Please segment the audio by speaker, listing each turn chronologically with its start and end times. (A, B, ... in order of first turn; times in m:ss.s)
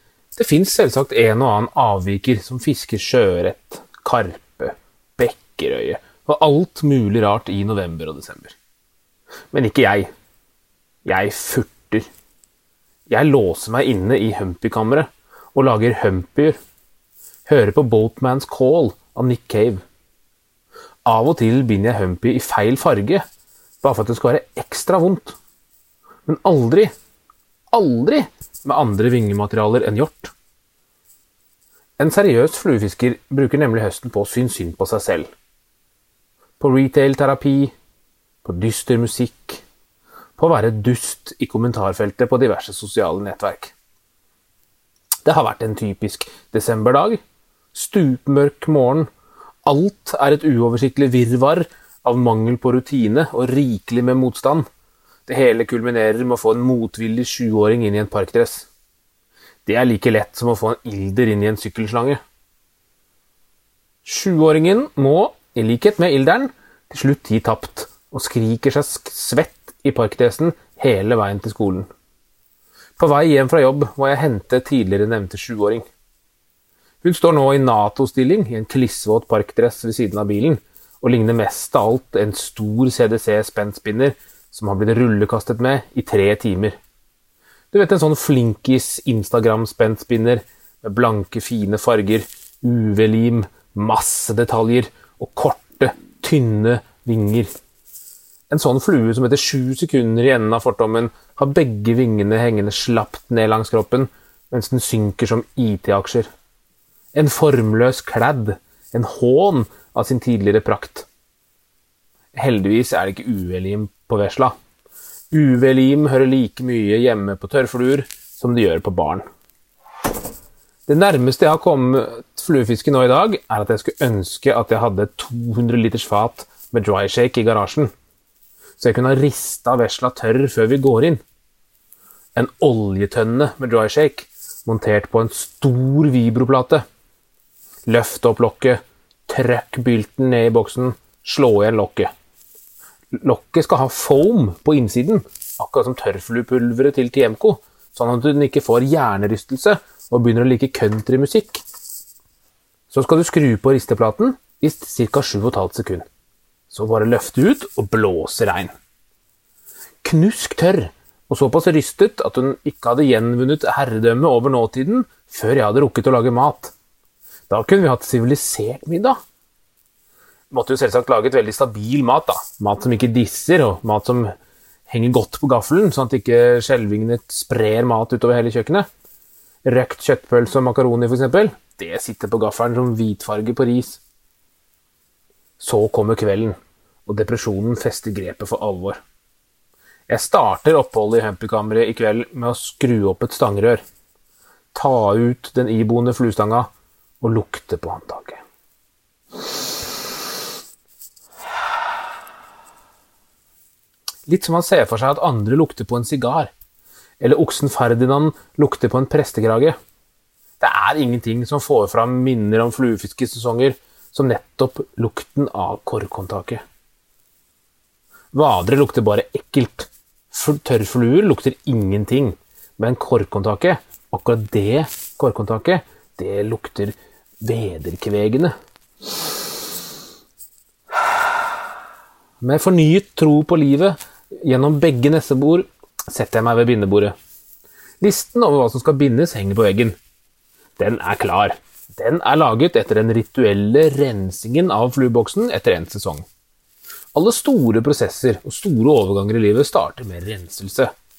0:00.4-0:08.5 A
0:09.5-0:10.1 A
0:11.0-0:12.1 A
0:13.1-0:16.6 A
0:17.4-0:19.8 A
0:21.0-0:23.2 A
0:23.8-0:25.4 A
0:26.2-0:26.9 A
0:27.7-0:30.3 A
0:32.0-0:35.3 A
0:36.6-0:37.7 A
0:38.4-0:39.6 A
0:40.4-0:43.7 A
0:45.2-0:47.2 A
0:47.7-0:49.1 A
0:49.6-0:54.7 A
0:55.3-0:58.6 A
0:59.6-1:02.2 A
1:04.0-1:11.9 A
1:13.0-1:15.8 A
1:17.0-1:26.8 A
1:27.7-1:37.5 A
1:38.5-1:46.3 A
1:47.1-1:51.0 A
1:52.3-1:54.5 A
1:55.3-1:59.2 A
2:00.9-2:07.9 A
2:08.8-2:11.2 A
2:12.4-2:16.8 A
2:17.9-2:22.1 A
2:23.1-2:31.6 A
2:32.9-2:36.0 A
2:36.7-2:38.7 A
2:40.0-2:46.7 A
2:47.5-2:49.2 A
2:50.5-2:54.3 A
2:54.9-2:58.9 A
2:59.6-3:04.0 A
3:05.6-3:09.0 A
3:10.1-3:13.8 A
3:14.7-3:16.7 A
3:17.2-3:18.4 A
3:24.3-3:26.5 A
3:27.2-3:29.8 A
3:30.6-3:36.6 A
3:38.3-3:48.5 A
3:50.9-3:51.6 A
3:52.4-3:57.1 A
3:58.0-4:00.0 A
4:00.8-4:06.2 A
4:07.1-4:10.9 A